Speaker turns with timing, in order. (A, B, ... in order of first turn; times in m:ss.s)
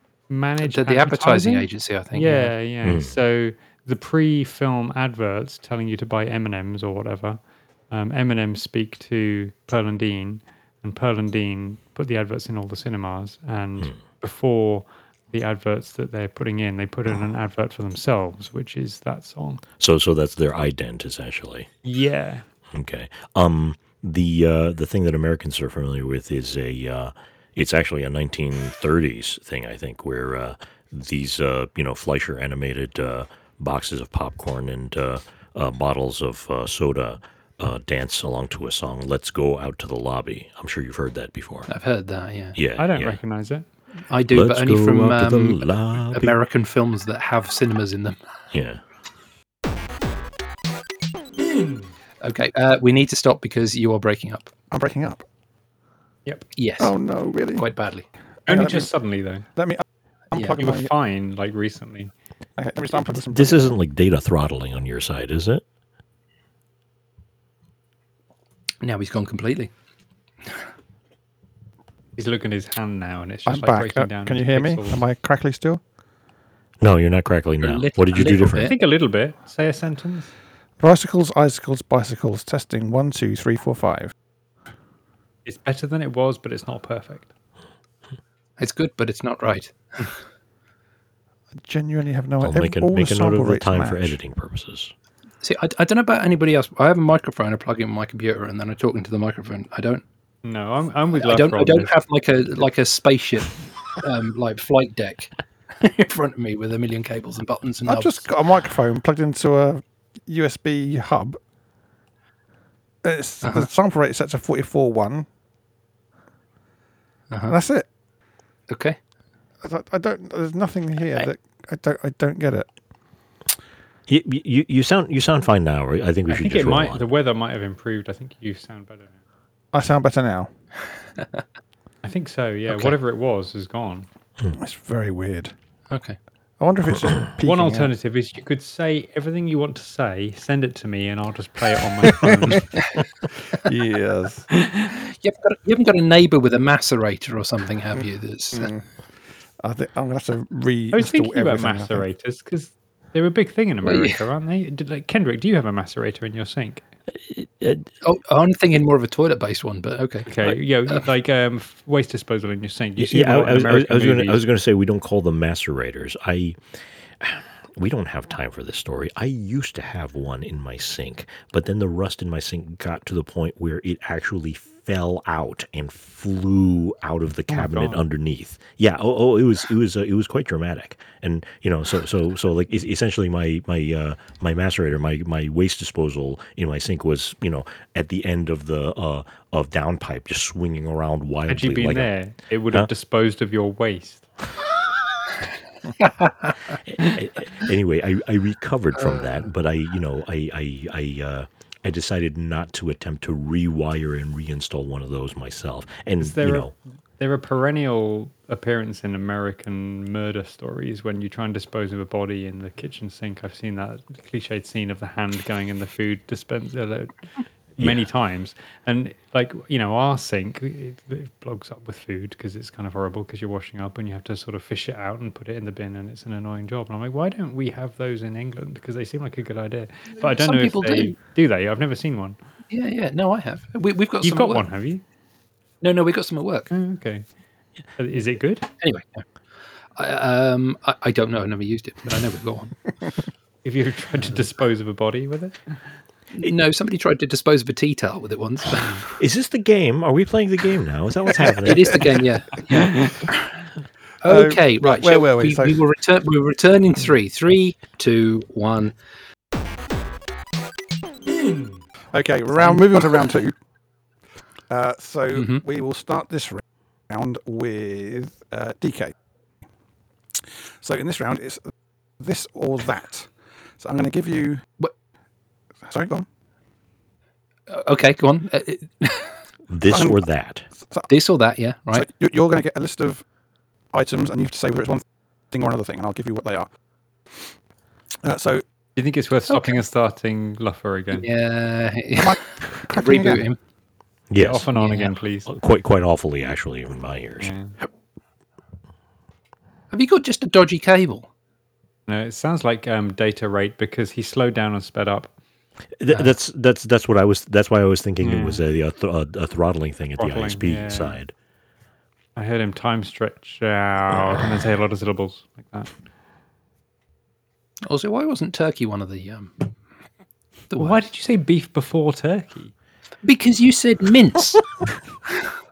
0:00.3-0:19.6 A
0:00.6-0:02.5 B
0:02.8-0:03.1 C
0:19.8-0:21.7 C
0:21.8-0:22.4 A
0:22.7-0:41.7 C
0:41.7-0:42.6 B
0:42.5-0:43.2 C
0:42.8-0:43.6 A
0:44.1-0:48.2 B
0:44.3-0:46.4 C
0:48.5-0:48.8 C
0:52.2-0:54.5 B
0:54.7-0:55.2 D
0:56.6-0:56.9 B
0:56.8-0:57.7 D
0:57.5-0:58.0 B
0:58.5-0:58.9 D
0:58.5-0:59.5 A
0:59.5-1:00.9 D
1:00.4-1:02.1 A
1:02.6-1:03.8 D
1:03.2-1:05.6 C
1:08.8-1:09.7 B
1:12.2-1:15.0 A
1:13.5-1:15.8 D
1:16.8-1:18.7 C
1:17.6-1:18.8 B
1:18.4-1:20.3 A
1:20.8-1:24.1 D
1:25.4-1:27.3 A
1:28.6-1:30.2 B
1:31.6-1:34.2 D
1:32.4-1:34.9 C
1:35.4-1:40.0 B
1:40.4-1:41.9 A
1:41.2-1:48.2 B
1:47.8-1:51.4 D
1:53.0-1:55.2 D
1:53.4-1:53.7 B
1:57.5-1:57.8 D
1:58.7-1:59.0 B
1:59.6-2:02.7 D
2:04.1-2:07.1 C
2:06.3-2:09.1 A
2:09.7-2:10.5 D
2:12.0-2:14.1 A
2:12.7-2:12.9 B
2:14.6-2:15.5 D
2:15.9-2:16.2 B
2:16.6-2:17.9 D
2:17.4-2:22.8 A
2:23.5-2:24.5 D
2:24.9-2:28.7 B
2:28.5-2:28.8 D
2:29.6-2:32.0 D
2:30.9-2:36.8 A
2:33.8-2:34.2 B
2:37.3-2:37.8 C
2:38.0-2:40.5 B
2:40.2-2:44.4 A
2:43.0-2:46.6 C
2:47.2-3:12.2 C
2:57.5-2:58.0 A
3:11.5-3:14.2 A
3:16.0-3:16.5 B
3:16.7-3:26.7 C
3:26.2-3:37.1 A
3:37.8-3:52.4 A
3:37.8-3:38.0 C
3:50.2-3:51.2 B
3:52.7-3:54.7 B
3:54.2-3:55.0 A
3:55.8-3:56.7 B
3:56.7-3:57.2 A
3:58.0-3:58.6 A
3:58.8-3:59.2 B
3:59.9-4:02.9 B
4:03.6-4:05.6 A
4:06.3-4:09.1 B
4:09.1-4:12.2 C
4:11.5-4:13.5 B
4:14.2-4:18.9 B
4:14.2-4:15.8 D
4:22.1-4:23.5 D
4:22.6-4:23.2 B
4:24.7-4:29.1 D
4:25.3-4:25.6 B
4:30.8-4:31.6 D
4:32.2-4:34.6 D
4:35.8-4:36.2 D
4:37.7-4:39.3 B
4:39.7-4:40.7 C
4:39.9-4:40.2 D
4:41.1-4:42.0 B
4:41.9-4:43.2 D
4:43.9-4:46.7 D
4:48.2-4:48.6 D
4:49.0-4:51.3 A
4:49.5-4:49.8 B
4:51.1-4:53.6 B
4:52.2-4:53.5 D
4:54.3-4:54.7 C
4:54.4-4:55.5 A
4:54.7-4:55.1 B
4:55.4-4:57.5 C
4:57.4-4:57.7 A
4:59.9-5:01.3 B
5:02.1-5:05.3 A
5:06.0-5:11.3 C
5:08.2-5:08.6 A
5:10.2-5:11.2 A
5:12.4-5:15.9 A
5:17.8-5:19.7 B
5:20.7-5:21.0 B
5:20.8-5:22.7 A
5:23.2-5:24.6 B